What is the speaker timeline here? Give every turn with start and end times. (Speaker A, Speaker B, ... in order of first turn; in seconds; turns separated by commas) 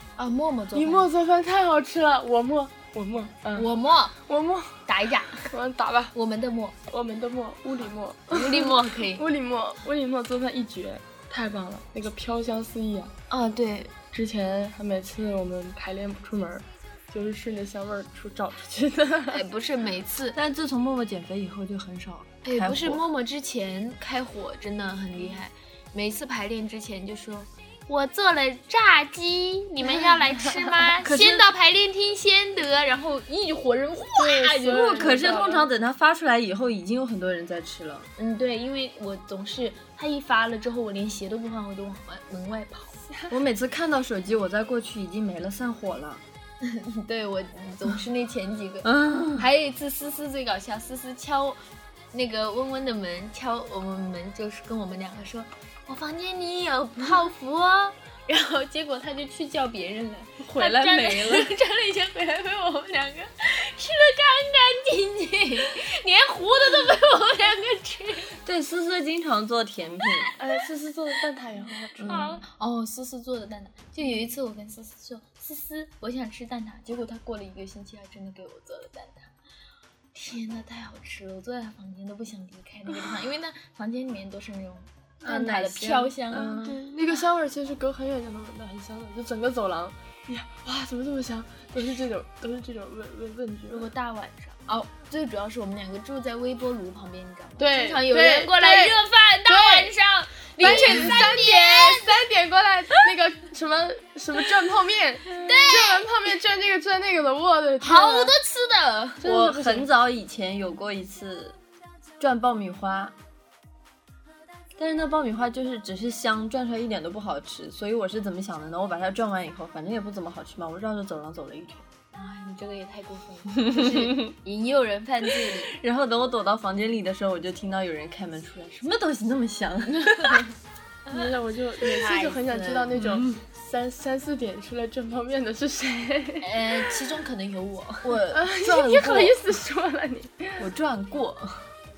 Speaker A: 0.2-1.1, Speaker B: 0.7-6.2, Speaker A: 3.5-4.2, Speaker A: 4.9-5.5, Speaker A: 6.1-6.8, Speaker B: 6.9-13.1, Speaker A: 8.3-9.2, Speaker A: 13.3-13.9, Speaker B: 14.1-19.4, Speaker A: 19.3-20.4, Speaker C: 20.4-23.0, Speaker A: 22.4-35.5, Speaker B: 30.3-30.8, Speaker C: 31.0-31.5, Speaker B: 34.2-35.7, Speaker C: 34.7-38.1, Speaker A: 38.2-43.0, Speaker C: 43.3-46.2, Speaker A: 46.6-51.6, Speaker C: 48.8-49.5, Speaker A: 52.1-68.3, Speaker C: 60.4-61.5, Speaker C: 68.4-70.3, Speaker B: 70.4-72.4, Speaker C: 72.0-72.3, Speaker A: 72.0-79.3, Speaker A: 80.1-86.8, Speaker C: 85.2-86.5, Speaker B: 86.3-93.9, Speaker A: 93.7-102.2, Speaker B: 97.6-99.9, Speaker B: 100.6-108.4, Speaker A: 105.3-106.1, Speaker A: 107.8-109.2, Speaker B: 109.2-109.9, Speaker C: 109.2-111.6, Speaker C: 112.2-113.2, Speaker C: 114.8-121.9, Speaker A: 122.1-125.7, Speaker C: 123.6-124.3, Speaker C: 125.3-130.5, Speaker A: 130.0-130.4, Speaker B: 131.1-136.8, Speaker A: 131.8-133.0, Speaker C: 132.9-133.4, Speaker A: 136.4-138.2, Speaker C: 138.0-139.5, Speaker B: 138.3-140.7, Speaker C: 140.6-141.7